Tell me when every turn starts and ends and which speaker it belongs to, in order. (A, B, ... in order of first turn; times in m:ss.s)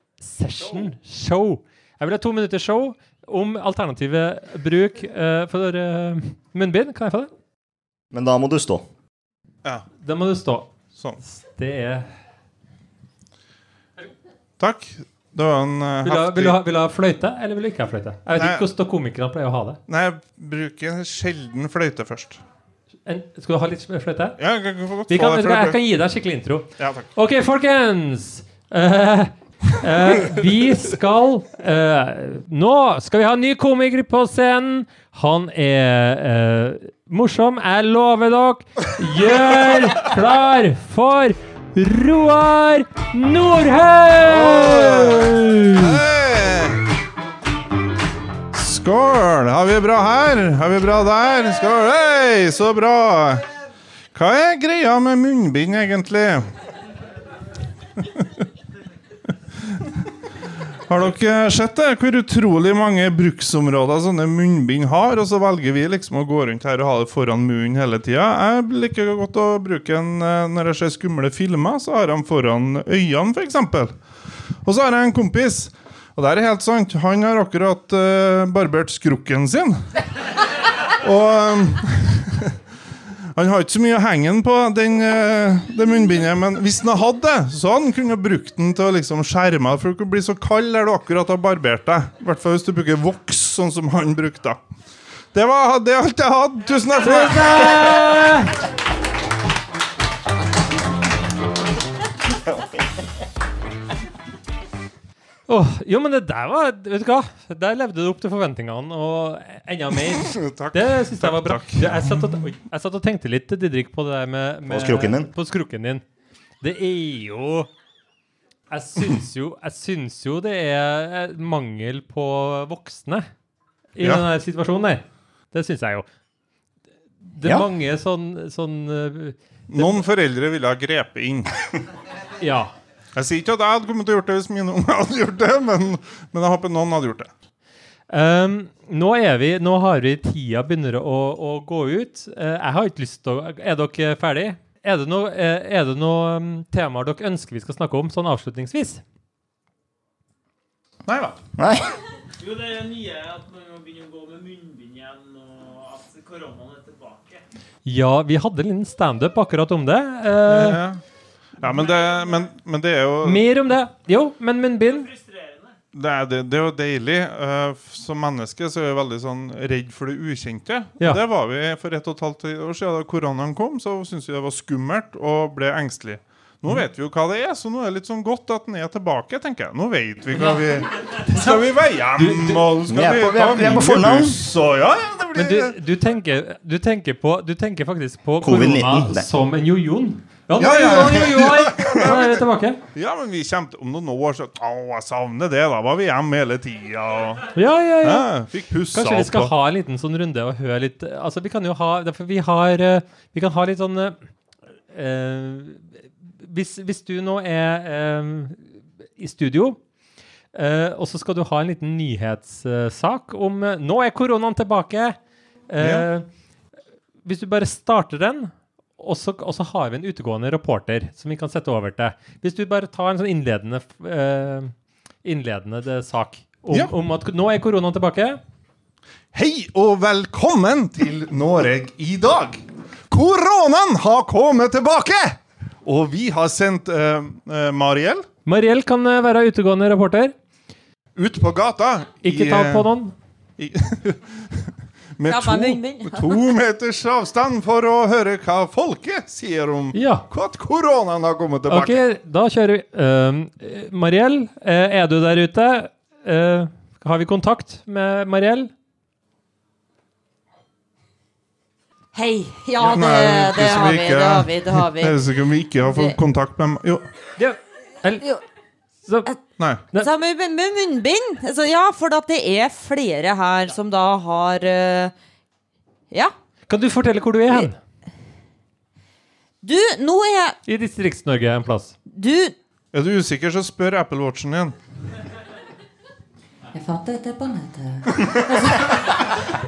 0:00.2-0:07.3 A
0:08.1-0:08.9 B
0:10.0-0:10.7 A
0:10.9-0:11.2 C
0:11.2-0:12.1 A
0:14.6-0:16.6 C
0:16.0-0:19.8 A
0:18.4-0:18.6 C
0:19.9-0:22.4 C
0:23.1-0:24.4 A
0:24.4-0:25.8 C
0:25.1-0:46.0 A
0:26.8-0:27.1 C
0:44.2-0:46.9 C
0:48.5-0:53.4 C
0:54.1-0:56.5 C
0:58.0-0:58.3 C
0:59.6-1:00.0 C
1:00.8-1:14.0 C
1:14.6-1:19.8 C
1:21.0-1:22.6 C
1:23.4-1:34.6 C
1:35.3-1:38.1 C
1:37.0-1:38.6 A
1:45.5-1:56.0 A
1:50.2-1:52.5 C
1:54.7-1:55.3 B
1:56.6-1:57.7 A
1:58.7-2:03.3 A
2:03.9-2:06.1 A
2:04.0-2:04.2 C
2:07.2-2:10.0 A
2:09.7-2:11.6 C
2:12.4-2:12.7 A
2:13.1-2:17.3 C
2:18.1-2:29.0 A
2:31.1-2:31.4 C
2:31.6-2:31.9 B
2:32.4-2:37.4 D
2:37.8-2:40.8 A
2:40.5-2:41.0 C
2:41.6-2:43.4 C
2:43.2-2:45.1 A
2:44.8-2:45.7 D
2:45.9-3:05.7 C
3:00.4-3:00.6 A
3:01.2-3:01.6 A
3:02.2-3:02.7 A
3:02.8-3:04.4 B
3:05.4-3:12.8 A
3:08.4-3:09.3 B
3:10.6-3:17.5 C
3:10.7-3:12.1 B
3:17.6-3:18.3 A
3:18.0-3:19.5 C
3:18.9-3:24.2 A
3:24.9-3:29.8 A
3:30.5-3:36.3 A
3:35.8-3:36.1 C
3:37.2-3:48.4 A
3:49.3-3:58.3 C
3:58.4-4:00.4 A
4:01.2-4:02.9 C
4:02.2-4:03.1 A
4:03.6-4:12.0 C
4:05.2-4:06.5 E
4:09.9-4:10.3 A
4:11.7-4:18.7 A
4:22.1-4:25.3 E
4:22.8-4:27.1 C
4:25.8-4:26.2 E
4:27.4-4:28.4 A
4:29.1-4:29.3 A
4:29.6-4:29.8 C
4:30.0-4:35.1 E
4:36.7-4:37.8 A
4:39.6-4:40.6 E
4:40.7-4:41.9 A
4:42.1-4:42.6 E
4:42.9-4:44.8 C
4:46.7-4:49.4 E